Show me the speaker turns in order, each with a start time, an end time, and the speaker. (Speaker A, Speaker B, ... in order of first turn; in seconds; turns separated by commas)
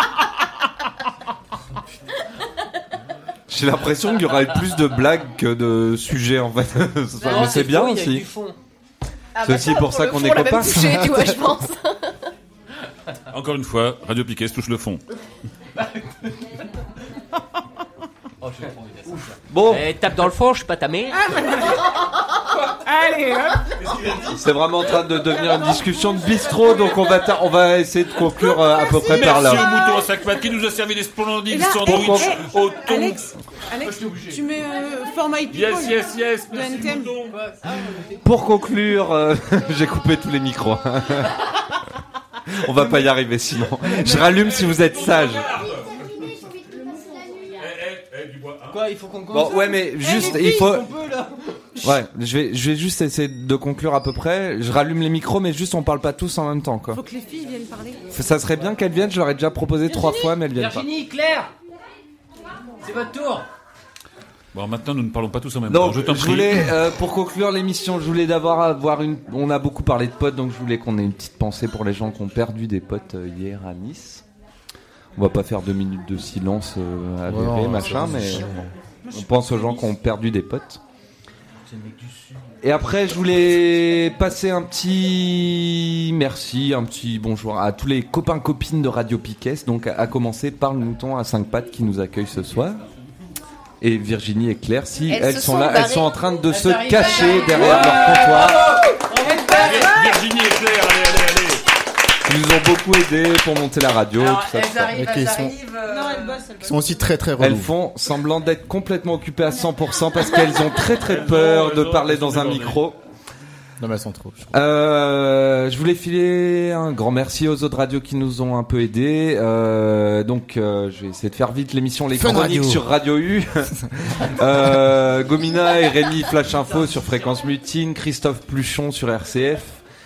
Speaker A: 3.5-8.3, Speaker B: 7.2-7.6, Speaker C: 7.2-8.6, Speaker B: 9.3-12.3, Speaker A: 9.4-11.3, Speaker D: 13.3-15.0, Speaker C: 15.8-16.1, Speaker C: 18.4-21.2, Speaker A: 19.5-19.9, Speaker E: 21.1-21.9, Speaker E: 22.8-23.8, Speaker C: 23.8-24.4, Speaker A: 24.3-29.8, Speaker E: 25.5-26.8, Speaker E: 28.2-30.1, Speaker D: 29.0-33.2, Speaker E: 31.5-37.2, Speaker A: 31.8-32.3, Speaker C: 34.1-34.4, Speaker D: 35.5-37.4, Speaker C: 37.2-38.4, Speaker A: 38.2-41.4, Speaker A: 42.5-45.5, Speaker C: 43.9-44.2, Speaker D: 44.1-46.0, Speaker D: 47.6-48.9, Speaker C: 48.7-52.0, Speaker A: 49.3-50.9, Speaker E: 50.0-50.7, Speaker A: 51.8-57.0, Speaker E: 56.9-58.0, Speaker A: 58.1-60.9, Speaker E: 59.9-60.3, Speaker C: 60.5-61.5, Speaker C: 62.8-63.5, Speaker D: 64.5-66.7, Speaker A: 65.7-74.2, Speaker A: 75.2-80.8, Speaker F: 77.2-78.7, Speaker E: 79.0-79.8, Speaker C: 81.7-82.4, Speaker A: 82.6-92.8, Speaker A: 93.8-98.8, Speaker B: 95.1-96.3, Speaker C: 96.5-100.1, Speaker E: 97.5-98.3, Speaker E: 99.1-100.1, Speaker D: 99.5-101.6, Speaker A: 102.2-105.0, Speaker C: 104.2-106.5, Speaker F: 104.9-105.5, Speaker E: 105.8-106.9, Speaker F: 106.6-107.7, Speaker A: 107.4-113.0, Speaker D: 111.0-112.8, Speaker F: 113.8-114.5, Speaker A: 114.5-129.8, Speaker F: 122.1-122.8